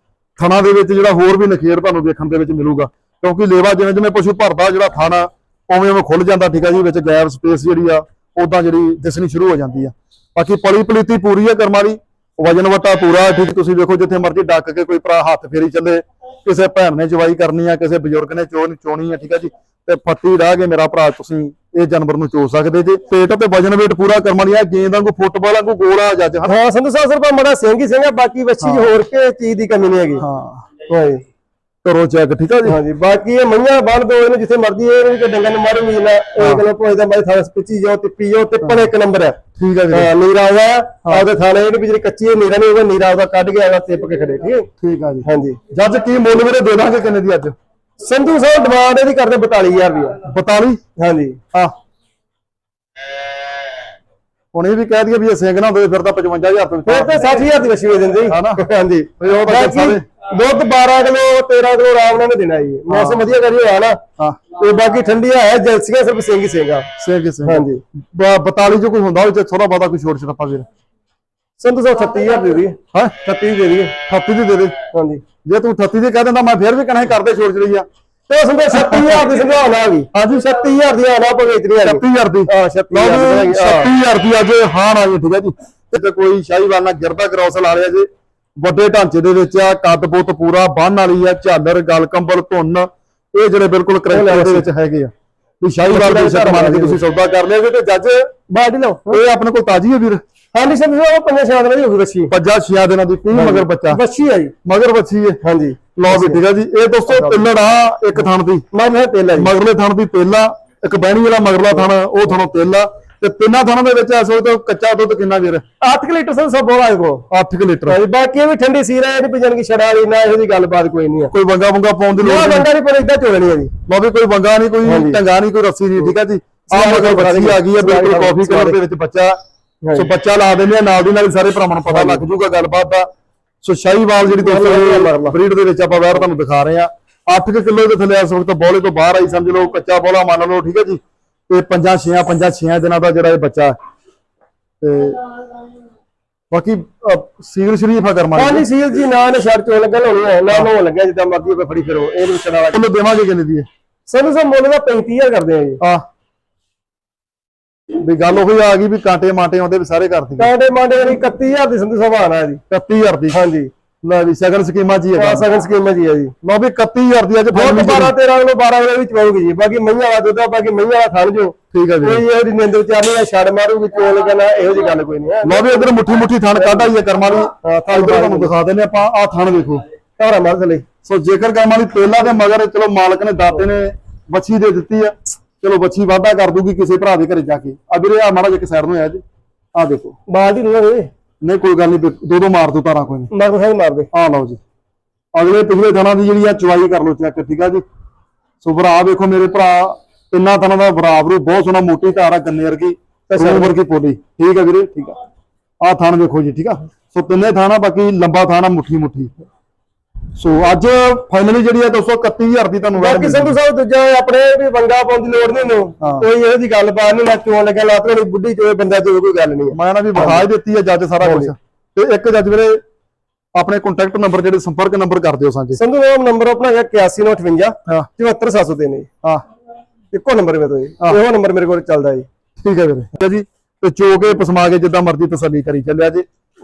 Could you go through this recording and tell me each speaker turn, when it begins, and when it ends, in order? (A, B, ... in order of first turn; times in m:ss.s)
0:00.4-0:26.6 A
0:26.4-0:30.2 B
0:28.6-0:28.9 A
0:30.2-0:30.7 A
0:30.9-0:31.2 B
0:31.8-0:32.8 A
0:32.6-0:44.7 B
0:36.4-0:36.6 A
0:39.6-0:40.1 A
0:44.8-0:47.6 A
0:45.2-0:45.6 B
0:48.0-0:50.2 B
0:50.3-0:50.8 A
0:51.0-0:51.4 B
0:54.5-0:57.3 A
0:56.9-1:04.0 B
0:58.3-0:58.6 A
0:59.2-1:00.0 A
1:02.9-1:03.3 A
1:04.6-1:06.9 B
1:07.0-1:10.7 A
1:07.4-1:07.8 B
1:11.6-1:14.0 B
1:14.1-1:14.8 A
1:14.9-1:15.2 B
1:15.4-1:17.9 A
1:18.3-1:23.9 B
1:21.8-1:35.1 A
1:34.1-1:34.7 B
1:35.6-1:38.4 A
1:35.9-1:37.0 B
1:38.5-1:39.2 B
1:39.1-1:40.2 A
1:40.5-1:42.3 B
1:42.3-1:44.0 A
1:43.3-1:44.5 B
1:44.6-1:45.4 A
1:45.4-1:46.4 B
1:46.0-1:48.6 A
1:47.1-1:47.4 B
1:48.7-1:49.5 B
1:49.4-1:55.6 A
1:55.8-1:57.3 B
1:57.3-1:58.0 A
1:57.9-2:01.3 B
2:01.3-2:02.7 A
2:02.2-2:03.7 B
2:03.9-2:09.4 A
2:04.8-2:05.2 B
2:06.7-2:08.8 B
2:09.8-2:10.1 B
2:09.9-2:13.1 A
2:11.9-2:12.2 B
2:13.6-2:23.8 A
2:14.3-2:15.4 B
2:24.8-2:25.2 A
2:26.5-2:28.7 A
2:28.3-2:32.8 B
2:32.7-2:33.7 A
2:34.1-2:35.8 B
2:38.0-2:40.5 A
2:40.4-2:42.6 B
2:42.7-2:43.4 A
2:43.3-2:43.7 B
2:44.0-2:45.5 A
2:45.2-2:46.3 B
2:46.4-2:48.1 A
2:47.5-2:56.0 B
2:51.7-2:52.2 A
2:55.4-2:59.8 A
2:56.6-2:56.9 B
2:57.6-2:58.5 B
3:00.2-3:00.8 B
3:01.0-3:09.2 A
3:09.8-3:10.2 A
3:10.3-3:11.1 B
3:11.4-3:13.3 A
3:13.3-3:14.1 B
3:14.1-3:14.6 A
3:15.4-3:17.8 A
3:18.6-3:25.2 A
3:23.3-3:23.8 B
3:25.8-3:29.3 A
3:30.4-3:33.6 A
3:33.0-3:40.5 B
3:36.0-3:36.3 A
3:39.7-3:42.8 A
3:41.2-3:41.5 B
3:43.6-3:45.8 A
3:45.8-3:49.1 B
3:50.1-3:52.3 B
3:52.6-3:56.3 A